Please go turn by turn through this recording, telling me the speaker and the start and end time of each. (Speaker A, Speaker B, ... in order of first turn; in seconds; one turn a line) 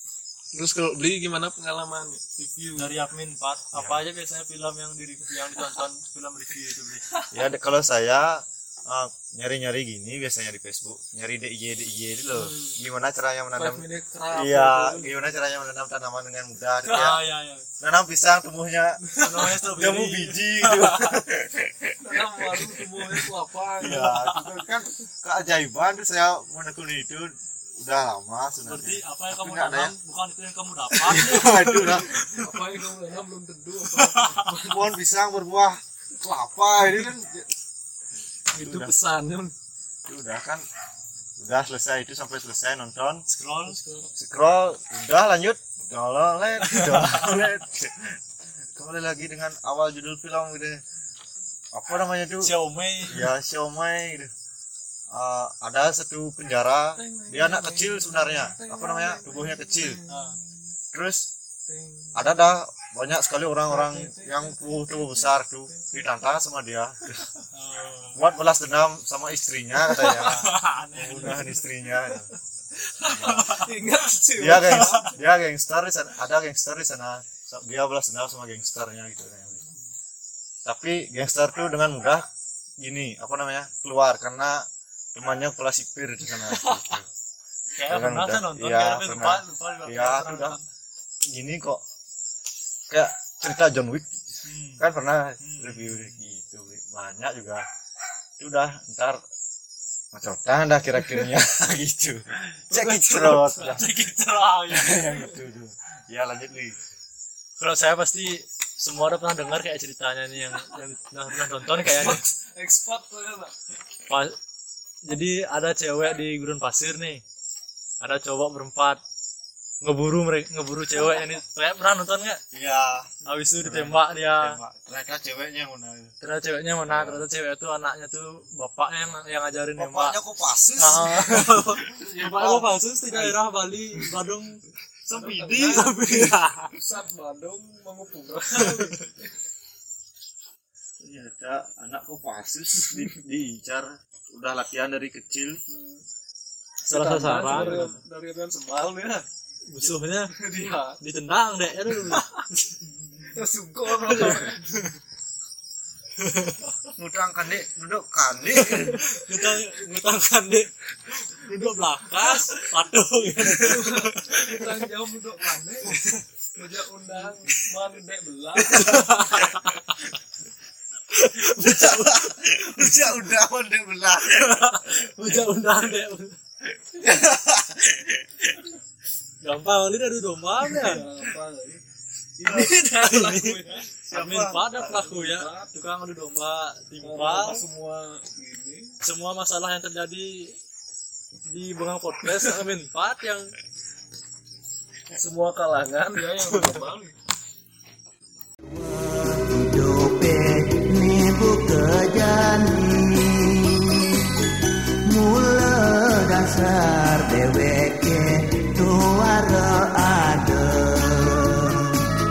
Speaker A: 0.5-2.9
Speaker B: 2.8-7.0
Speaker C: 3.7-4.0
Speaker C: 7.3-17.2
Speaker A: 12.3-12.8
Speaker A: 13.5-15.1
Speaker B: 16.9-17.6
Speaker C: 17.8-29.9
Speaker A: 19.1-19.5
Speaker B: 19.2-21.2
Speaker A: 22.0-24.2
Speaker B: 23.9-24.4
Speaker B: 28.6-32.2
Speaker C: 31.0-32.5
Speaker A: 31.2-34.9
Speaker B: 33.9-34.4
Speaker C: 34.6-37.5
Speaker A: 38.5-39.5
Speaker C: 38.6-38.9
Speaker C: 40.0-40.6
Speaker C: 41.4-43.2
Speaker B: 43.3-43.8
Speaker A: 43.6-44.1
Speaker C: 44.1-48.2
Speaker B: 46.6-47.4
Speaker C: 48.7-50.8
Speaker C: 51.7-52.5
Speaker B: 52.4-53.3
Speaker C: 53.1-54.3
Speaker C: 55.1-60.0
Speaker A: 57.0-60.7
Speaker B: 60.1-60.4
Speaker C: 60.9-61.3
Speaker A: 61.7-62.5
Speaker C: 62.1-67.2
Speaker A: 63.7-66.0
Speaker B: 67.5-68.2
Speaker C: 68.1-72.3
Speaker A: 69.8-70.3
Speaker B: 70.1-71.6
Speaker A: 72.8-75.2
Speaker C: 73.0-73.6
Speaker B: 73.2-73.7
Speaker C: 74.4-79.6
Speaker B: 74.7-75.1
Speaker C: 80.6-82.2
Speaker C: 82.8-87.0
Speaker B: 87.7-90.6
Speaker C: 87.8-90.6
Speaker C: 91.3-91.8
Speaker C: 92.9-97.6
Speaker B: 94.4-94.9
Speaker B: 95.4-96.2
Speaker C: 98.4-99.2
Speaker C: 100.1-103.9
Speaker A: 102.7-103.8
Speaker B: 103.5-105.1
Speaker C: 104.7-106.8
Speaker B: 107.6-112.2
Speaker A: 111.7-113.5
Speaker B: 114.1-114.3
Speaker B: 115.0-117.2
Speaker B: 118.0-119.0
Speaker B: 119.8-122.4
Speaker C: 122.5-126.1
Speaker B: 123.2-124.6
Speaker B: 126.2-130.2
Speaker C: 126.8-127.2
Speaker C: 129.8-132.7
Speaker B: 130.8-134.6
Speaker A: 133.1-133.4
Speaker C: 135.0-135.9
Speaker A: 135.1-139.3
Speaker B: 135.5-136.7
Speaker B: 138.5-138.8
Speaker C: 141.0-145.6
Speaker A: 145.7-146.0
Speaker A: 146.8-149.2
Speaker B: 146.8-148.0
Speaker C: 147.5-147.9
Speaker B: 149.6-152.8
Speaker A: 149.8-151.0
Speaker A: 152.1-152.4
Speaker A: 153.2-154.9
Speaker B: 154.0-154.6
Speaker B: 156.2-156.6
Speaker C: 156.9-159.1
Speaker B: 158.5-164.6
Speaker A: 163.5-166.0
Speaker B: 165.9-166.2
Speaker A: 166.5-169.2
Speaker B: 168.6-170.1
Speaker B: 171.1-173.2
Speaker C: 171.4-175.1
Speaker B: 174.2-176.3
Speaker C: 176.7-178.6
Speaker B: 179.4-181.0
Speaker A: 180.7-181.8
Speaker C: 182.4-182.8
Speaker A: 182.4-183.9
Speaker B: 182.4-187.6
Speaker C: 184.0-184.8
Speaker A: 184.8-185.7
Speaker A: 187.0-188.9
Speaker B: 189.0-190.5
Speaker B: 191.4-193.5
Speaker A: 192.3-192.5
Speaker A: 195.1-197.2
Speaker D: 198.7-204.3
Speaker D: 205.1-212.0